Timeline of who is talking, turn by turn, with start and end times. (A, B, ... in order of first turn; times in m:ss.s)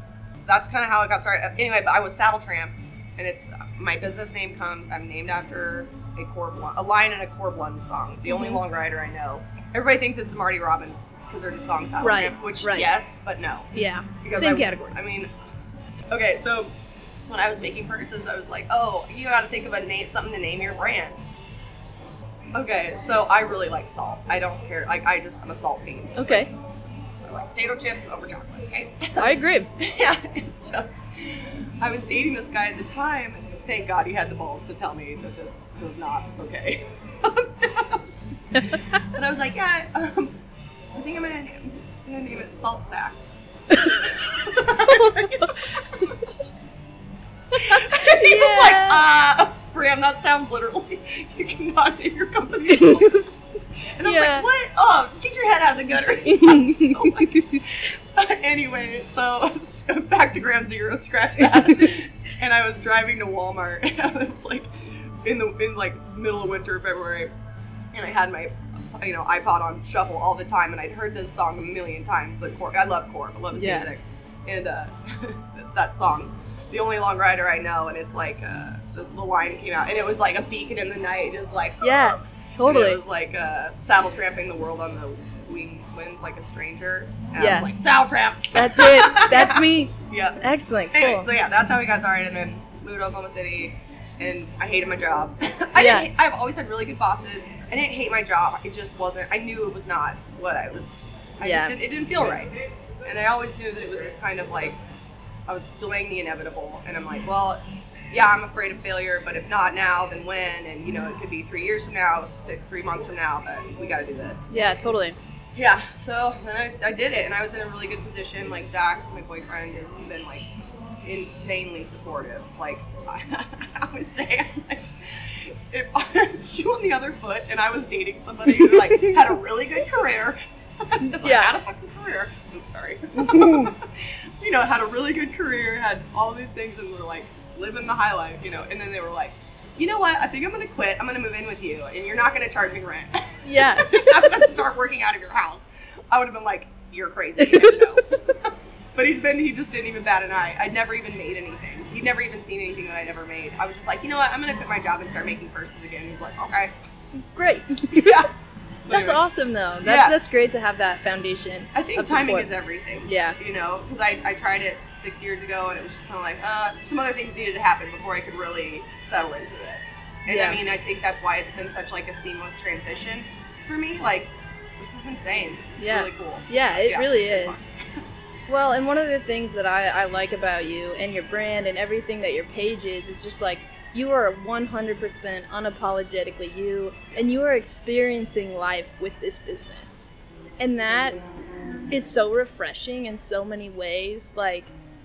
0:00.4-0:13.7 A
0:08.3-0:08.6 B
0:12.0-0:12.9 B
0:13.7-0:14.8 B
0:14.2-0:15.3 A
0:16.1-0:16.7 A
0:17.3-0:21.2 A
0:22.5-0:26.5 A
0:26.2-0:26.5 B
0:27.2-0:40.4 A
0:29.2-0:29.7 B
0:40.9-0:46.2 A
0:43.7-0:44.0 B
0:44.9-0:45.5 B
0:47.5-0:53.3 A
0:47.6-0:49.0 B
0:52.8-0:53.1 B
0:54.0-1:07.3 A
0:54.0-0:54.5 B
0:56.2-0:57.4 B
1:07.9-1:30.4 A
1:13.5-1:13.9 B
1:21.8-1:23.0 B
1:27.4-1:27.7 B
1:28.5-1:31.3 B
1:30.9-1:42.5 A
1:35.8-1:36.1 B
1:41.4-1:41.8 B
1:43.0-1:44.8 A
1:45.5-1:54.5 A
1:54.5-1:55.2 B
1:55.5-2:00.5 A
2:01.0-2:36.7 A
2:08.5-2:09.2 B
2:11.1-2:11.6 B
2:13.1-2:13.7 B
2:23.4-2:24.0 B
2:27.4-2:27.8 B
2:37.3-2:38.2 B
2:37.9-2:38.3 A
2:38.8-2:39.2 A
2:38.9-2:42.5 B
2:39.8-2:40.1 A
2:41.7-2:57.7 A
2:43.0-2:43.4 B
2:50.3-2:50.6 B
2:55.8-2:57.6 B
2:58.5-3:11.2 B
3:11.9-3:14.7 B